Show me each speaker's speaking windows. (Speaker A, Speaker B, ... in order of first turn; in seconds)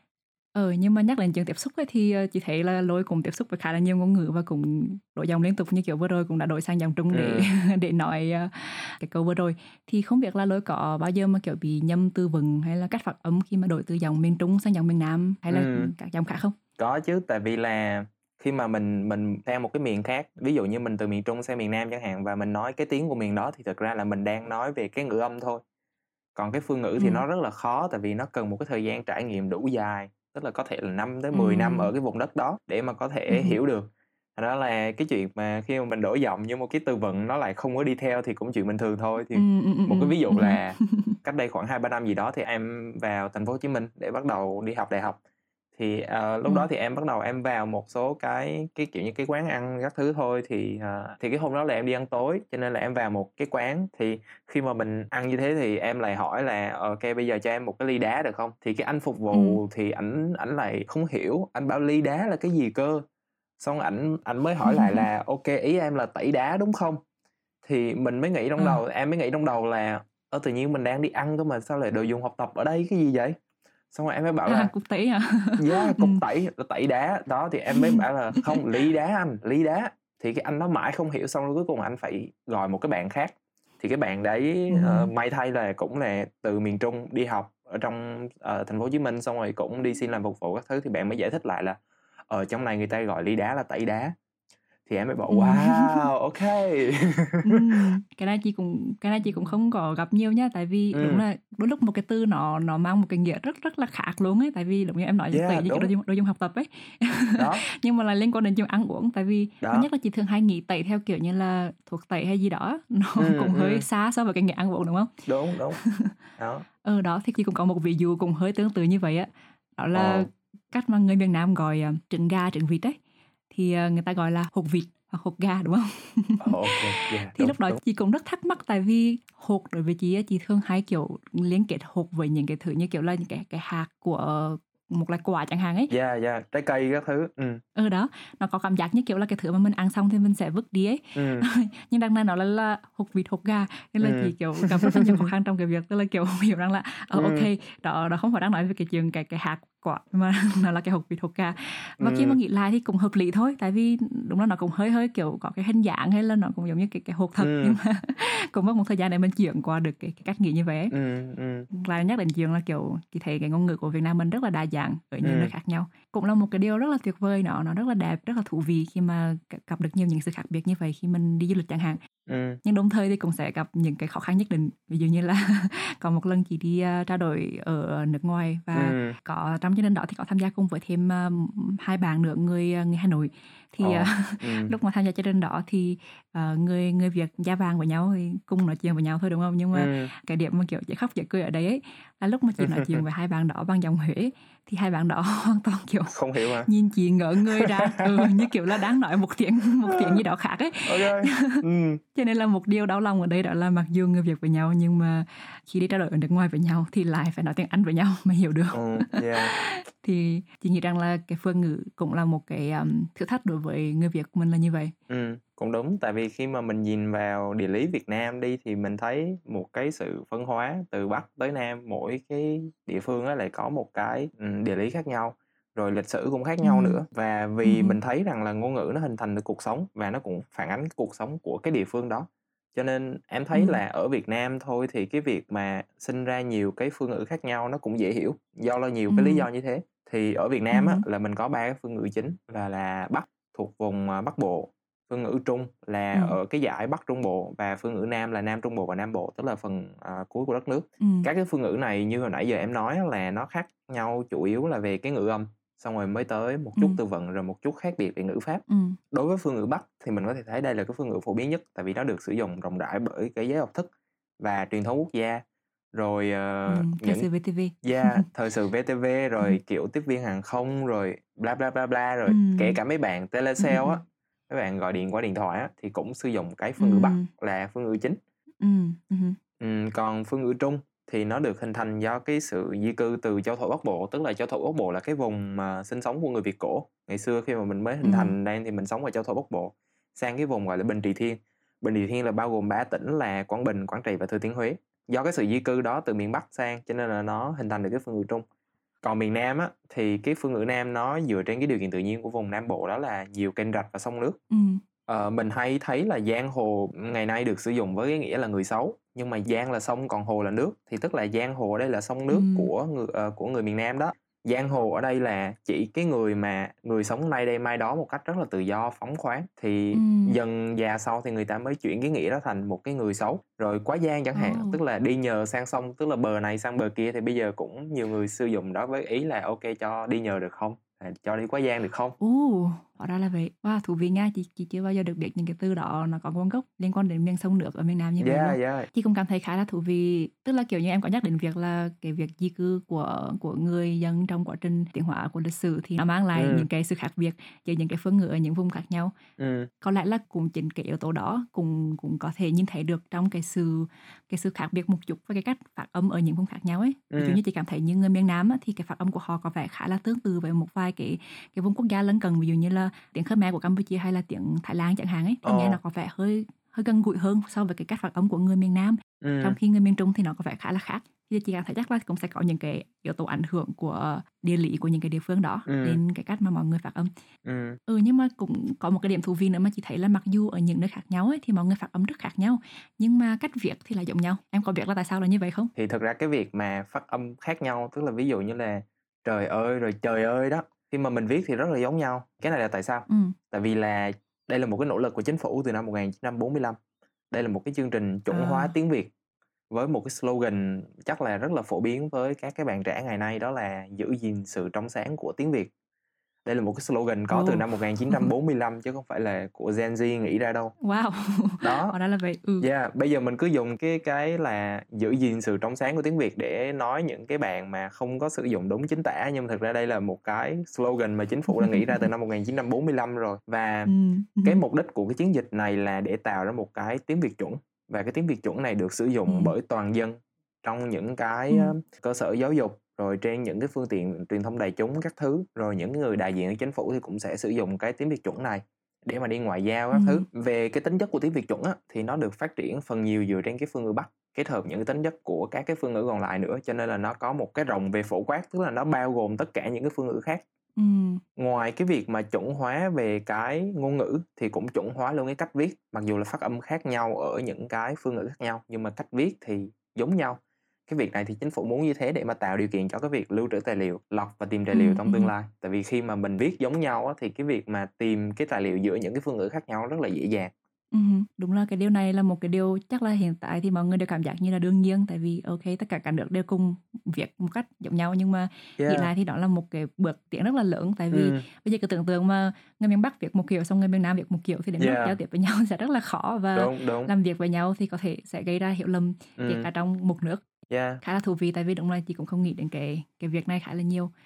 Speaker A: 0.5-16.5, 27.0-27.2, 31.3-31.9, 33.3-33.6, 39.3-41.1, 59.3-59.6, 64.6-65.0, 74.5-76.2, 77.7-78.6, 84.7-85.1, 95.3-96.1, 97.4-116.1, 116.8-123.0, 123.5-135.9, 137.7-160.9, 161.7-172.0, 172.6-201.6, 202.1-214.9, 226.6-227.0, 227.6-228.0, 233.5-233.8, 239.1-239.5, 240.7-241.0, 251.0-251.3, 258.7-259.0, 266.7-268.2, 272.2-272.8, 273.6-274.0, 276.8-277.3, 278.6-279.4, 288.0-288.3, 304.5-304.8, 312.3-312.7, 319.9-320.4, 324.3-324.8, 332.2-349.1, 349.8-377.1, 377.9-385.7, 393.1-393.4, 398.3-398.7, 407.3-408.3, 410.8-412.7, 421.5-422.1, 423.9-424.6, 429.3-429.5, 439.9-440.2, 450.8-451.2, 464.7-465.3, 470.9-490.4, 491.0-494.1
Speaker B: 7.1-7.5, 15.5-15.9, 16.8-25.6, 26.3-45.2, 45.7-63.0, 63.6-67.0, 67.6-73.4, 73.9-74.7, 75.6-91.8, 92.3-94.1, 94.8-97.8, 100.9-101.2, 105.3-105.9, 107.4-107.6, 109.6-109.9, 113.2-113.8, 115.2-115.8, 116.4-116.7, 119.9-120.3, 126.4-127.8, 135.9-137.6, 141.1-141.4, 144.0-145.2, 147.1-147.5, 152.0-152.4, 157.4-157.8, 160.9-161.7, 165.2-165.5, 172.3-172.6, 178.7-179.2, 183.8-184.7, 189.7-190.1, 192.6-193.0, 196.1-196.7, 197.5-198.5, 199.9-200.2, 200.8-202.0, 208.7-209.5, 215.1-267.3, 267.8-278.2, 279.6-298.4, 299.0-304.4, 305.1-332.2, 338.2-338.9, 346.3-346.7, 349.4-349.7, 357.1-357.4, 365.4-365.8, 369.2-369.6, 375.6-376.0, 377.4-377.8, 385.7-396.8, 397.3-399.1, 399.7-405.7, 406.4-410.7, 411.6-411.9, 412.6-423.9, 424.4-450.4, 451.4-470.5, 478.8-479.1, 481.1-481.4, 484.8-485.2, 486.5-487.1, 489.4-489.7, 490.7-491.0